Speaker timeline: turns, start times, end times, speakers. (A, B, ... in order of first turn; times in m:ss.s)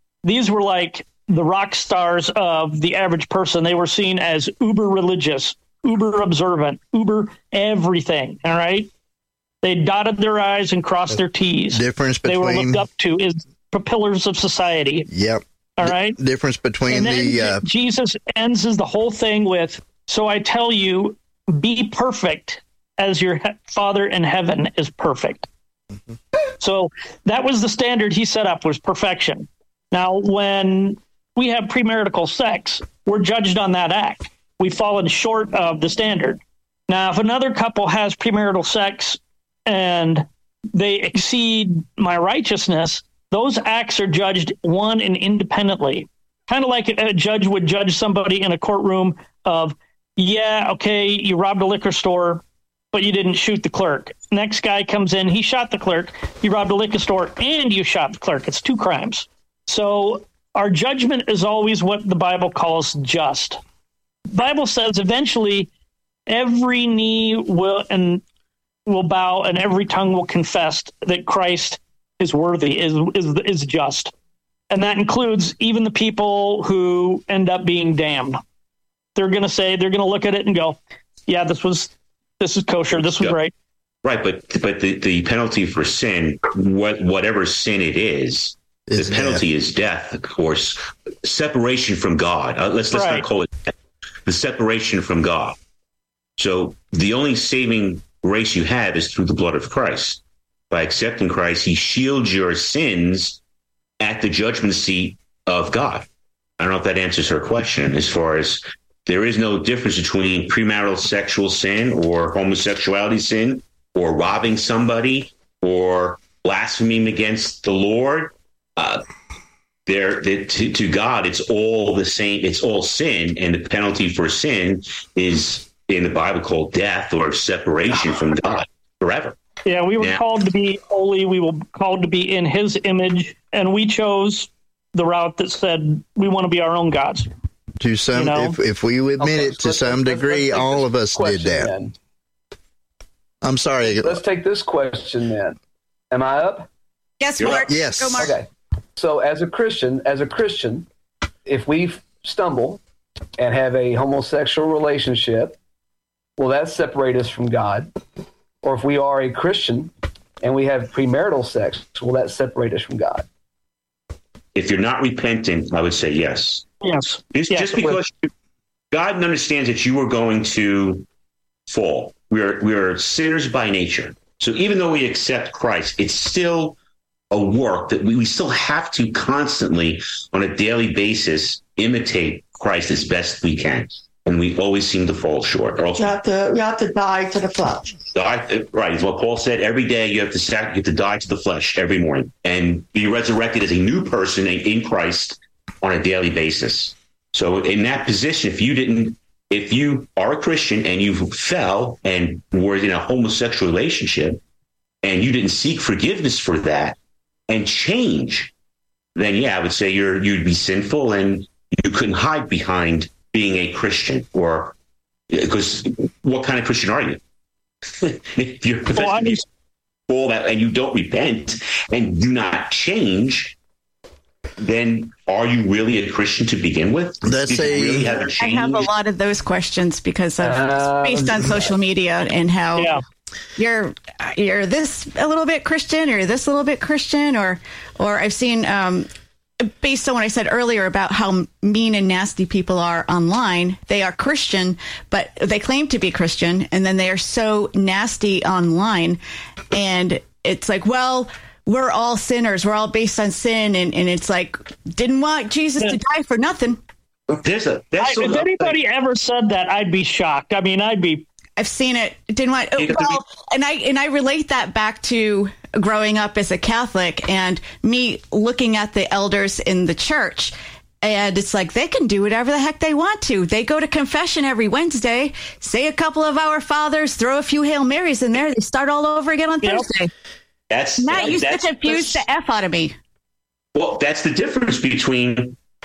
0:00.2-0:08.9 A
0:09.6-0:15.1 A
0:11.7-0:12.8 B
0:15.1-0:17.6 B
0:15.8-0:16.2 A
0:16.9-0:25.5 A
0:26.6-1:03.6 A
1:04.3-1:05.7 A
1:06.3-1:08.2 A
1:08.9-1:14.1 A
1:14.7-1:18.4 A
1:19.2-1:23.5 A
1:23.0-1:23.4 C
1:24.0-1:33.7 C
1:28.9-1:29.4 B
1:32.9-1:33.2 A
1:34.3-1:35.6 C
1:36.4-1:40.2 C
1:40.7-1:43.4 C
1:44.0-1:46.1 C
1:46.6-1:59.0 C
1:59.9-2:09.4 C
2:09.6-2:17.3 A
2:17.8-2:21.8 B
2:18.2-2:18.6 A
2:19.2-2:21.9 D
2:23.4-2:24.2 B
2:23.8-2:25.6 D
2:26.1-2:26.7 D
2:27.2-2:28.4 E
2:27.4-2:27.7 C
2:27.5-2:28.3 B
2:28.2-2:30.9 D
2:31.5-2:32.8 D
2:33.4-2:35.6 D
2:36.4-2:37.9 D
2:38.6-2:43.3 D
2:44.6-2:46.7 C
2:46.8-2:48.0 A
2:47.3-2:48.3 C
2:48.9-2:51.0 C
2:51.7-2:56.8 C
2:57.3-3:06.1 C
3:06.0-3:07.9 F
3:08.1-3:24.4 C
3:25.0-3:27.0 C
3:27.5-3:28.5 C
3:29.2-3:34.8 C
3:35.3-3:37.2 C
3:38.0-3:39.4 C
3:39.0-3:39.4 A
3:40.1-3:43.6 C
3:44.6-3:48.9 C
3:47.2-3:48.2 B
3:48.2-3:53.0 E
3:50.4-3:51.8 D
3:52.8-3:53.0 A
3:53.6-3:59.1 E
3:59.6-4:09.2 E
4:09.7-4:16.8 E
4:17.3-4:18.8 C
4:18.0-4:21.2 A
4:21.6-4:40.1 E
4:22.8-4:23.2 C
4:40.7-4:42.2 C
4:41.0-4:42.9 E
4:43.8-4:45.6 C